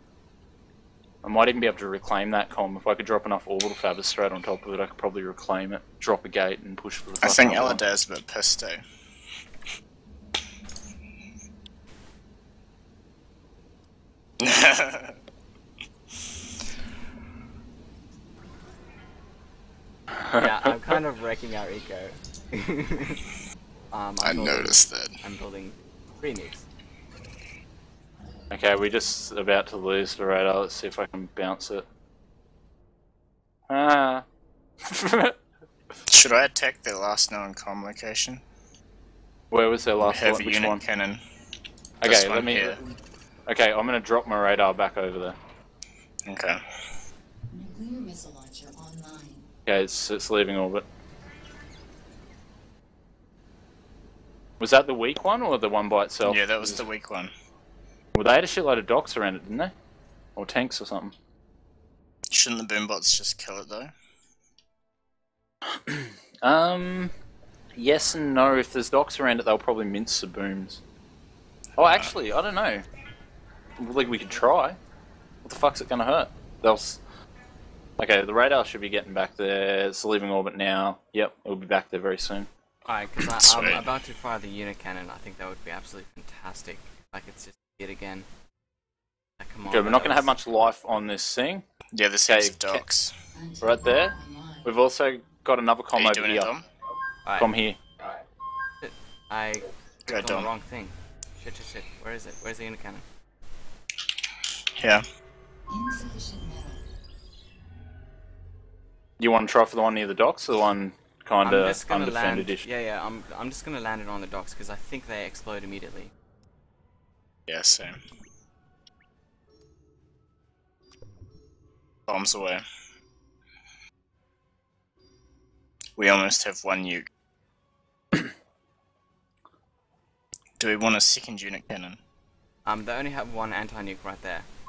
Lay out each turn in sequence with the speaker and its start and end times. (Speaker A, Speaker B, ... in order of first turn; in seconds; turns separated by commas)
Speaker A: 1.2-7.8, Speaker B: 7.2-8.8, Speaker B: 14.4-15.2, Speaker A: 20.2-21.0, Speaker C: 20.4-23.2, Speaker C: 23.9-26.6, Speaker B: 24.2-25.1, Speaker A: 28.5-31.9, Speaker A: 33.7-34.2, Speaker A: 34.9-35.4, Speaker B: 36.1-38.4, Speaker A: 39.5-40.8, Speaker B: 40.0-41.2, Speaker A: 42.0-42.9, Speaker B: 42.0-42.8, Speaker A: 43.5-45.4, Speaker B: 46.3-46.6, Speaker D: 47.5-49.5, Speaker A: 49.7-50.9, Speaker A: 54.6-56.9, Speaker B: 56.2-57.3, Speaker A: 58.2-59.7, Speaker A: 60.4-61.1, Speaker B: 62.3-63.9, Speaker A: 65.9-67.1, Speaker A: 67.8-70.8, Speaker B: 71.8-72.1, Speaker A: 71.8-72.8, Speaker A: 73.8-74.8, Speaker A: 75.5-77.0, Speaker A: 78.0-82.5, Speaker C: 82.9-88.3, Speaker B: 83.2-83.8, Speaker C: 89.4-90.3, Speaker A: 89.7-91.6, Speaker B: 91.9-93.1, Speaker A: 92.3-92.8, Speaker D: 93.3-94.8, Speaker A: 93.6-96.5, Speaker B: 96.0-96.7, Speaker C: 97.2-97.5, Speaker A: 97.4-97.8, Speaker C: 98.8-103.0, Speaker B: 100.1-100.5, Speaker B: 104.8-105.0, Speaker D: 105.7-106.9, Speaker A: 109.2-112.7, Speaker C: 111.4-116.1, Speaker B: 117.5-118.0, Speaker B: 122.1-122.6, Speaker B: 126.0-127.1, Speaker B: 130.6-132.0, Speaker C: 132.7-134.5